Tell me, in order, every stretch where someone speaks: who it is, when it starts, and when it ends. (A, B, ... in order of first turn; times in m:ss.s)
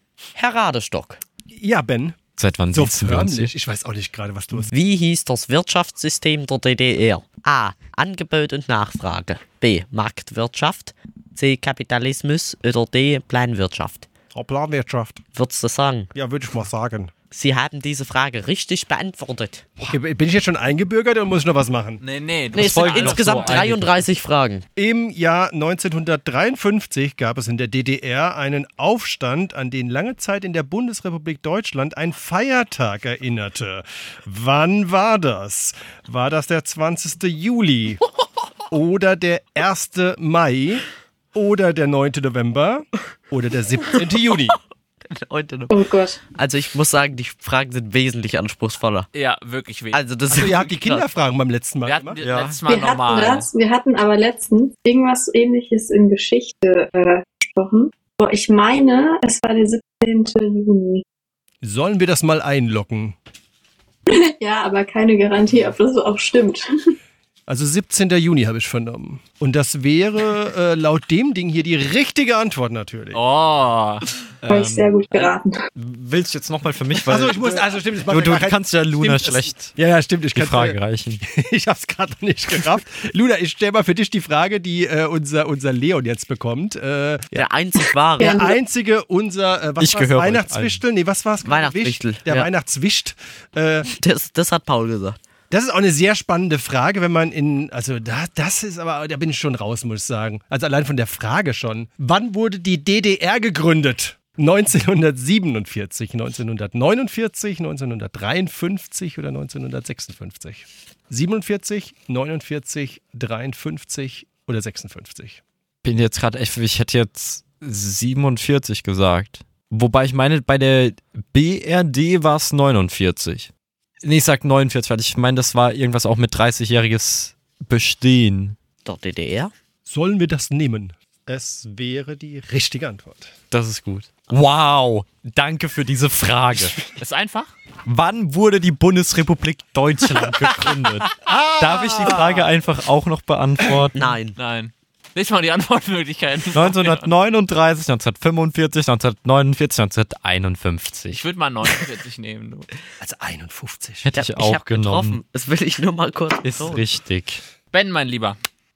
0:00.3-0:01.2 A
0:01.5-0:02.2 B
0:02.4-0:03.5 C
0:02.7-0:04.7 B
0:04.6-0:14.1 A
0:14.3-0:15.2 B
0:15.3-0:16.1 A
0:16.1-0:17.1 B
0:17.3-0:19.9 A
0:19.9-0:22.0 B
0:22.0-0:23.7 D
0:22.5-0:24.0 C
0:22.5-0:24.6 A
0:24.8-0:38.0 B
0:38.7-0:44.6 B
0:45.1-0:45.8 A
0:45.7-0:46.2 E
0:46.3-0:49.1 A
0:49.1-0:50.0 D
0:49.9-0:51.1 A
0:50.3-0:52.2 B
0:51.8-0:53.5 D
0:52.2-0:52.6 C
0:52.6-1:01.0 E
1:01.6-1:03.2 B
1:04.1-1:06.6 E
1:07.5-1:13.2 B
1:13.1-1:14.1 D
1:14.4-1:14.9 C
1:14.5-1:15.5 E
1:15.7-1:19.8 C
1:17.1-1:27.4 B
1:20.3-1:21.2 C
1:27.3-1:28.5 A
1:28.2-1:28.5 E
1:28.2-1:33.9 B
1:29.8-1:30.8 C
1:31.4-1:32.5 A
1:33.8-1:35.2 A
1:35.5-1:55.4 B
1:55.8-2:03.5 C
2:04.0-2:08.6 C
2:08.8-2:09.5 A
2:09.8-2:13.3 B
2:13.5-2:16.8 C
2:17.0-2:17.5 D
2:17.8-2:24.0 C
2:21.2-2:22.4 B
2:23.9-2:24.4 A
2:24.3-2:27.1 D
2:26.5-2:31.2 C
2:31.1-2:32.7 D
2:33.0-2:34.1 B
2:34.0-2:35.2 C
2:34.1-2:36.8 A
2:36.4-2:37.4 C
2:37.7-2:38.4 D